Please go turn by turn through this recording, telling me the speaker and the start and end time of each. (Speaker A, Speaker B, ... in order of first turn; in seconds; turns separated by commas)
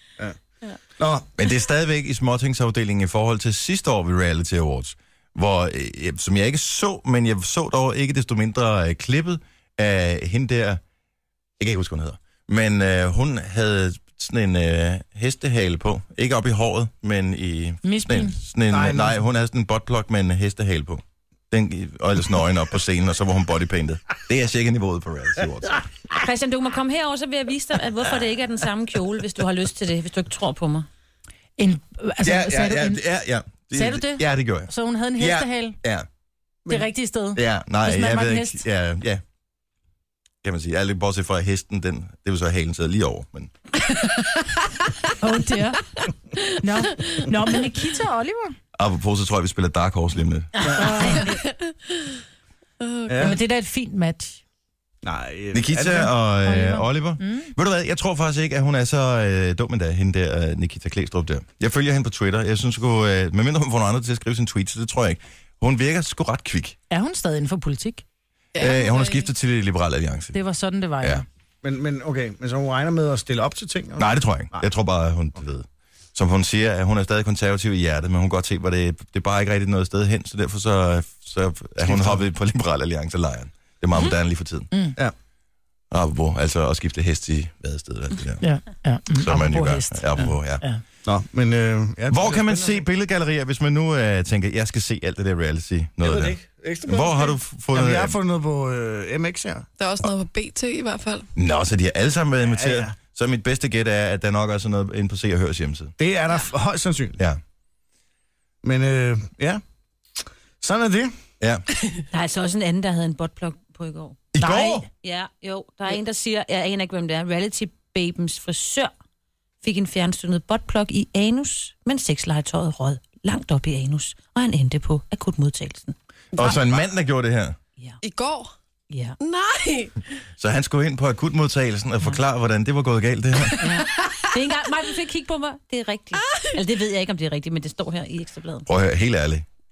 Speaker A: 1.0-1.3, Speaker B: 1.4-10.8, Speaker B: 11.6-25.8, Speaker C: 17.8-18.4, Speaker A: 18.7-19.2, Speaker D: 26.1-30.9, Speaker C: 31.6-33.0, Speaker B: 32.2-36.1, Speaker C: 33.7-35.8, Speaker C: 36.7-38.6, Speaker B: 37.3-39.2, Speaker B: 40.4-43.5, Speaker C: 45.2-45.8, Speaker C: 46.6-48.5, Speaker B: 48.7-50.7, Speaker C: 50.8-51.3, Speaker E: 51.2-51.7, Speaker E: 52.8-53.4, Speaker A: 53.1-53.4, Speaker C: 53.2-54.4, Speaker A: 55.0-56.1, Speaker B: 55.5-66.8, Speaker C: 56.4-57.5, Speaker C: 66.9-68.0, Speaker E: 68.5-69.3, Speaker B: 68.6-70.4, Speaker C: 70.3-71.2, Speaker A: 71.6-74.6, Speaker B: 74.0-84.7, Speaker A: 81.8-82.2, Speaker C: 84.7-85.0, Speaker B: 85.9-88.4, Speaker C: 88.4-90.8, Speaker B: 89.1-90.6, Speaker A: 91.0-92.8, Speaker B: 92.1-98.2, Speaker A: 96.0-99.7, Speaker E: 99.8-101.3, Speaker B: 101.3-105.9, Speaker A: 102.5-102.9, Speaker A: 106.0-107.2, Speaker A: 108.6-109.6, Speaker A: 110.2-111.1, Speaker B: 111.4-111.6, Speaker D: 112.1-118.9, Speaker B: 114.3-114.9, Speaker D: 119.6-125.9, Speaker B: 126.3-127.6, Speaker E: 128.0-128.5, Speaker D: 128.9-129.2, Speaker E: 129.2-130.0, Speaker B: 130.4-133.8, Speaker D: 133.6-138.7, Speaker B: 138.7-139.4